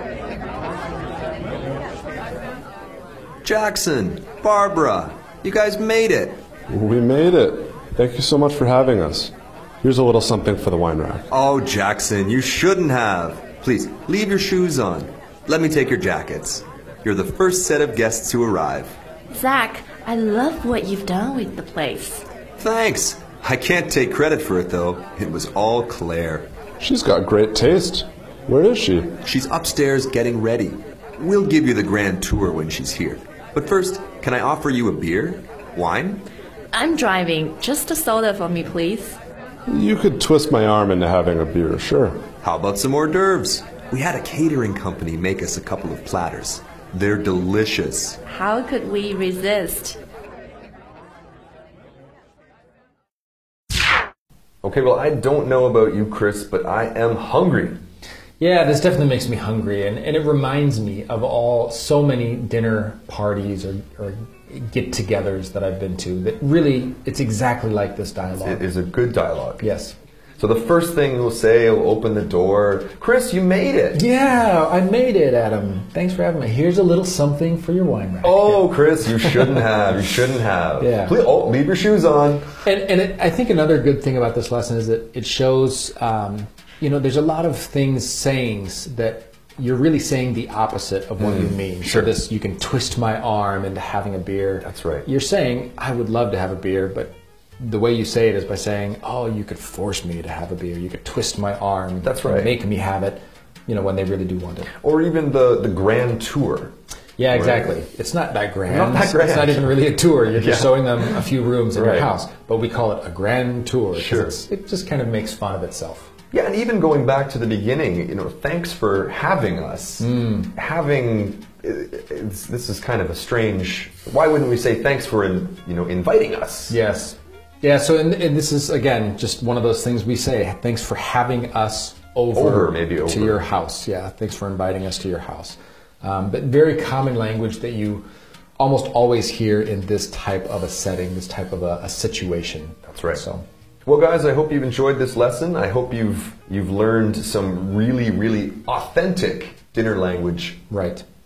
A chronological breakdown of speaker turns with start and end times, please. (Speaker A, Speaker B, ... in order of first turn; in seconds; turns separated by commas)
Speaker A: 3.4-6.4, Speaker B: 6.7-11.2, Speaker A: 11.3-19.0, Speaker C: 19.3-22.2, Speaker A: 22.6-26.5, Speaker B: 26.8-29.2, Speaker A: 29.2-36.2, Speaker C: 36.7-39.2, Speaker B: 39.7-42.3, Speaker A: 42.4-48.2, Speaker C: 48.3-50.0, Speaker A: 54.6-57.8, Speaker D: 58.4-68.6, Speaker A: 68.4-69.7, Speaker D: 69.6-69.9, Speaker A: 70.4-74.0, Speaker D: 73.9-79.7, Speaker A: 78.2-82.5, Speaker D: 80.8-81.2, Speaker D: 82.6-104.7, Speaker A: 91.2-92.1, Speaker A: 94.6-95.1, Speaker A: 102.0-102.6, Speaker A: 104.8-106.7, Speaker D: 107.2-116.1, Speaker A: 107.3-107.7, Speaker A: 108.7-112.1, Speaker A: 113.9-114.4, Speaker A: 116.3-126.8, Speaker D: 120.0-120.5, Speaker D: 126.7-138.1, Speaker A: 132.3-133.4, Speaker D: 138.6-143.4, Speaker A: 142.9-143.2, Speaker A: 143.8-150.6, Speaker D: 150.7-151.0